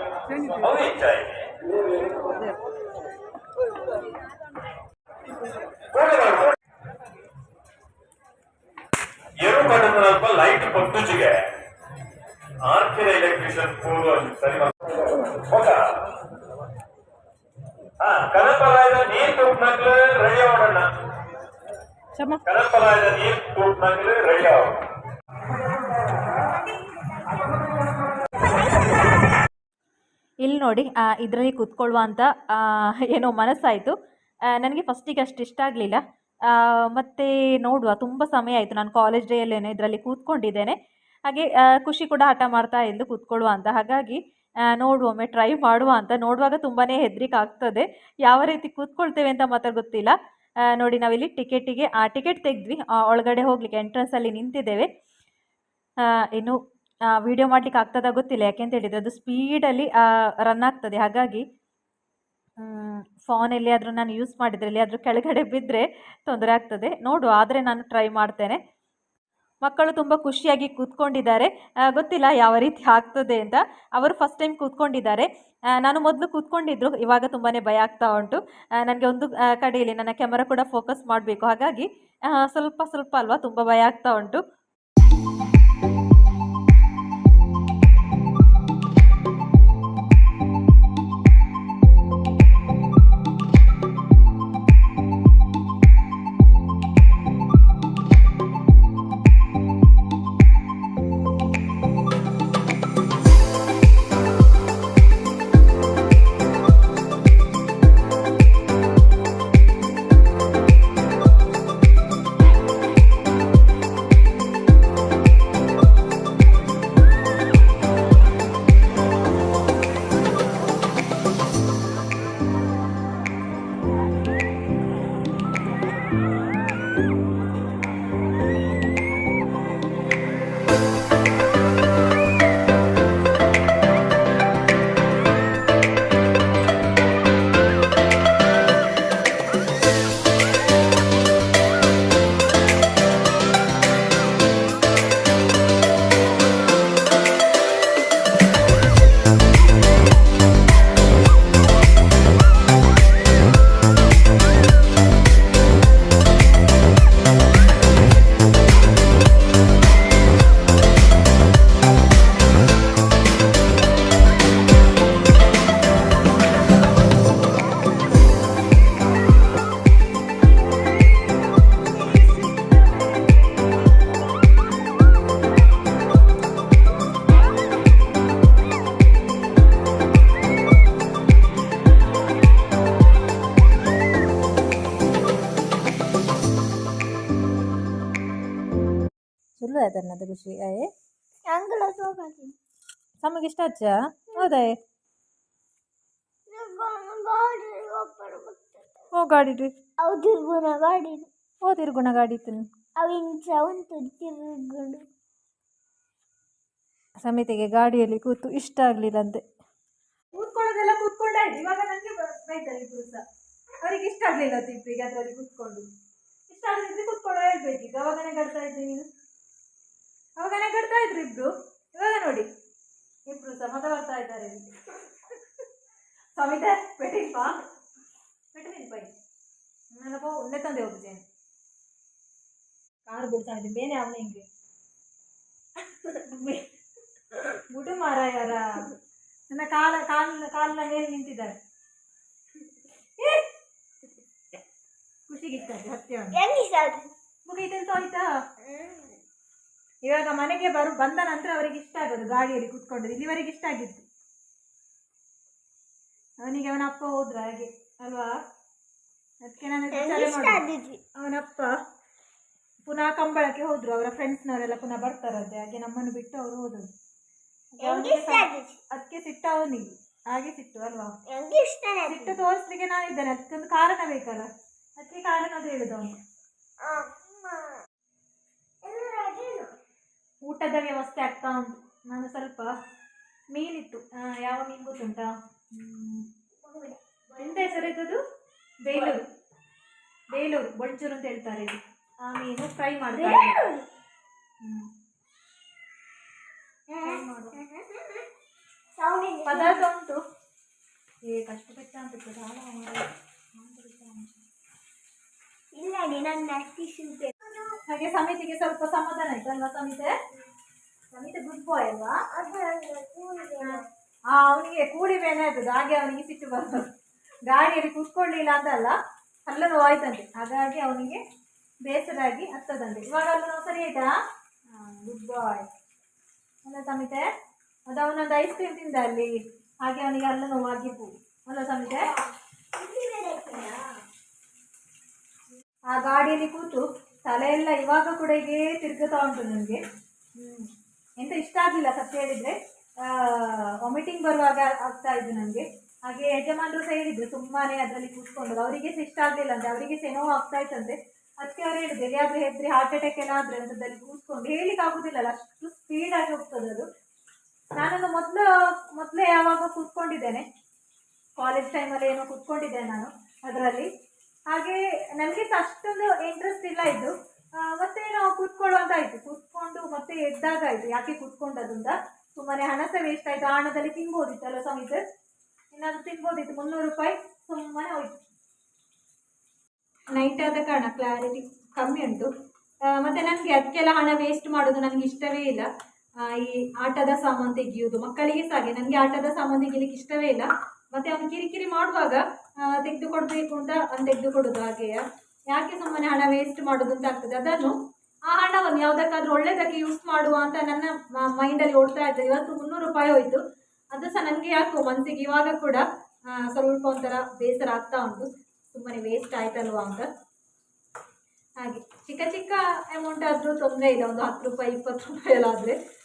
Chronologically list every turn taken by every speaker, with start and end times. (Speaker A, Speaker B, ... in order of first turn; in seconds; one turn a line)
Speaker A: 0.4-1.6
Speaker A: 5.9-6.5
Speaker A: 9.4-11.4
Speaker A: 12.6-15.9
Speaker A: 18.0-20.9
Speaker B: 22.1-22.4
Speaker A: 22.4-24.8
Speaker B: 30.4-33.9
Speaker B: 34.5-40.7
Speaker B: 41.3-44.2
Speaker B: 44.7-50.1
Speaker B: 50.7-54.9
Speaker B: 56.0-56.6
Speaker B: 57.1-61.4
Speaker B: 62.6-68.6
Speaker B: 69.6-84.4
Speaker B: 189.6-190.9
Speaker C: 191.5-192.5
Speaker B: 193.2-194.7
Speaker C: 196.5-199.1
Speaker B: 199.1-199.7
Speaker C: 200.0-201.3
Speaker B: 201.6-202.7
Speaker C: 203.0-205.1
Speaker B: 207.2-209.4
Speaker B: 210.3-213.2
Speaker B: 213.8-215.8
Speaker B: 216.5-219.1
Speaker B: 220.4-222.5
Speaker B: 223.3-224.9
Speaker B: 226.3-227.6
Speaker B: 228.5-229.1
Speaker B: 229.9-231.2
Speaker B: 233.1-234.4
Speaker B: 236.3-236.7
Speaker B: 237.7-238.9
Speaker B: 239.5-241.5
Speaker B: 245.3-246.4
Speaker C: 246.3-247.1
Speaker B: 247.4-248.2
Speaker C: 248.6-249.2
Speaker B: 250.1-254.0
Speaker B: 256.4-258.3
Speaker B: 259.4-260.6
Speaker C: 259.9-261.0
Speaker B: 261.2-261.7
Speaker B: 262.8-266.8
Speaker B: 267.8-271.1
Speaker C: 267.8-268.8
Speaker C: 271.3-272.4
Speaker B: 272.1-276.1
Speaker C: 276.8-277.8
Speaker C: 278.8-279.7
Speaker B: 280.4-282.7
Speaker B: 283.5-286.2
Speaker C: 286.6-287.9
Speaker B: 287.4-288.2
Speaker B: 288.8-289.2
Speaker B: 290.3-293.6
Speaker C: 293.1-293.9
Speaker B: 294.6-294.9
Speaker C: 296.9-298.2
Speaker B: 297.0-297.6
Speaker C: 298.9-299.8
Speaker B: 299.5-300.2
Speaker B: 301.3-304.3
Speaker C: 305.7-307.8
Speaker B: 307.8-310.1
Speaker B: 311.1-312.1
Speaker C: 312.3-313.9
Speaker B: 314.3-316.9
Speaker B: 317.5-318.9
Speaker B: 319.5-321.2
Speaker B: 321.8-324.1
Speaker B: 324.7-325.7
Speaker B: 326.6-327.2
Speaker B: 327.9-329.3
Speaker B: 329.8-332.1
Speaker C: 332.0-333.9
Speaker B: 335.9-339.8
Speaker B: 340.4-340.7
Speaker B: 341.2-356.9
Speaker B: 357.8-360.4
Speaker B: 361.4-363.9
Speaker B: 364.5-367.1
Speaker B: 367.6-375.0
Speaker B: 375.7-378.1
Speaker B: 380.1-382.3
Speaker B: 382.9-385.7
Speaker B: 386.2-397.7
Speaker B: 398.3-403.4
Speaker B: 403.9-405.8
Speaker B: 406.4-410.1
Speaker B: 411.6-415.8